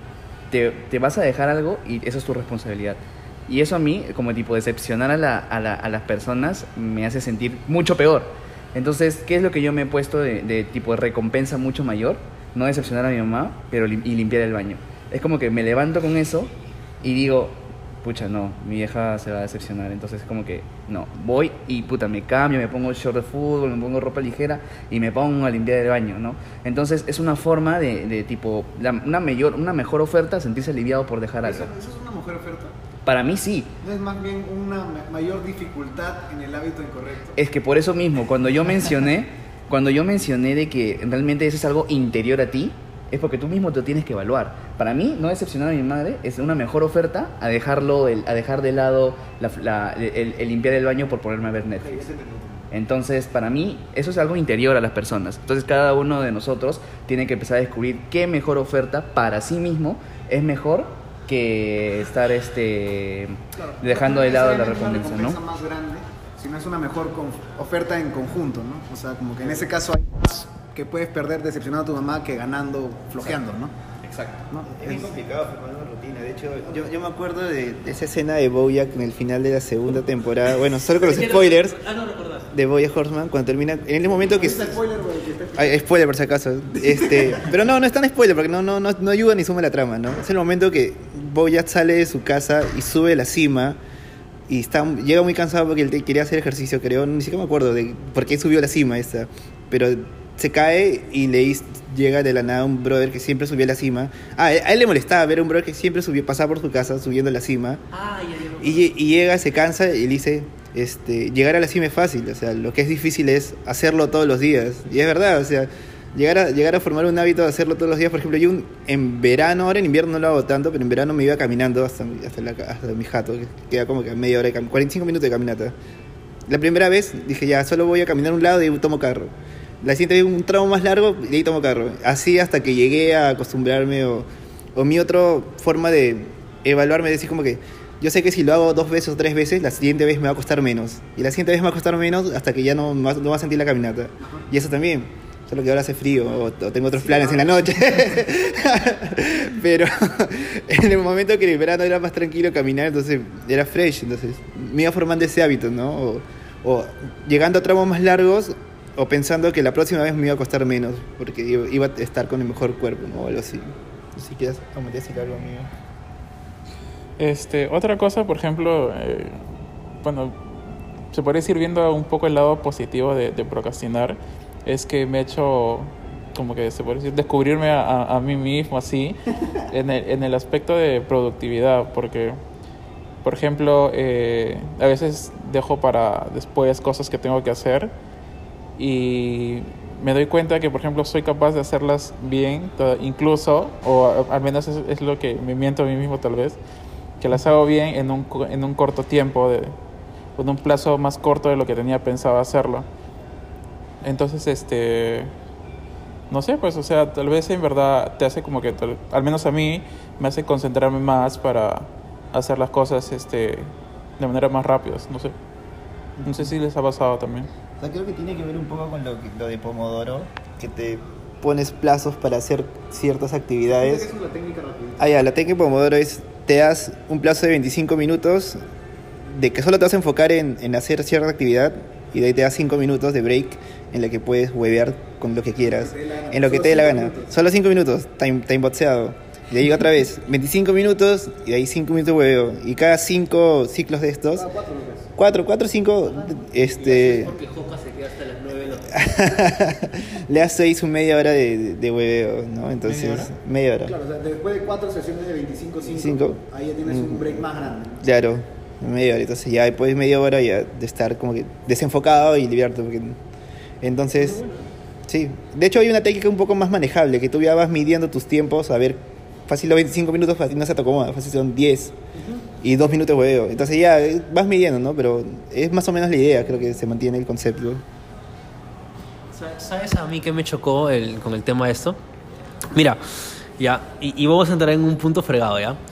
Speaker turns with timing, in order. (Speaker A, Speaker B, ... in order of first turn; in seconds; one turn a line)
Speaker A: 0.5-31.7
Speaker B: 31.4-32.7
Speaker A: 33.0-33.7
Speaker B: 33.8-37.4
Speaker A: 37.4-52.1
Speaker B: 51.8-52.6
Speaker A: 52.7-65.4
Speaker B: 63.6-73.7
Speaker A: 74.0-74.4
Speaker B: 74.5-75.1
Speaker C: 74.8-81.8
Speaker D: 81.0-82.5
Speaker C: 82.5-84.8
Speaker B: 84.2-85.8
Speaker C: 85.6-93.8
Speaker B: 86.8-87.4
Speaker C: 94.5-107.8
Speaker D: 107.9-108.9
Speaker C: 108.6-125.7
Speaker C: 126.5-165.7
Speaker B: 147.1-147.5
Speaker E: 167.2-169.4
Speaker E: 170.0-170.6
Speaker E: 171.1-179.2
Speaker E: 179.7-182.4
Speaker E: 183.2-187.9
Speaker E: 188.8-196.6
Speaker E: 197.2-199.7
Speaker E: 200.3-202.8
Speaker E: 204.0-205.3
Speaker E: 206.3-215.3
Speaker E: 216.2-217.5
Speaker C: 217.8-224.1
Speaker B: 223.8-225.1
Speaker C: 225.0-228.6
Speaker C: 229.3-244.5
Speaker B: 235.7-237.3
Speaker B: 244.3-245.1
Speaker C: 245.2-247.3
Speaker D: 246.8-249.1
Speaker C: 248.9-253.9
Speaker B: 252.9-253.3
Speaker B: 253.8-258.0
Speaker C: 255.9-257.4
Speaker C: 258.0-263.2
Speaker C: 263.8-264.4
Speaker C: 265.1-271.9
Speaker C: 272.6-277.8
Speaker D: 279.3-282.0
Speaker D: 282.7-285.8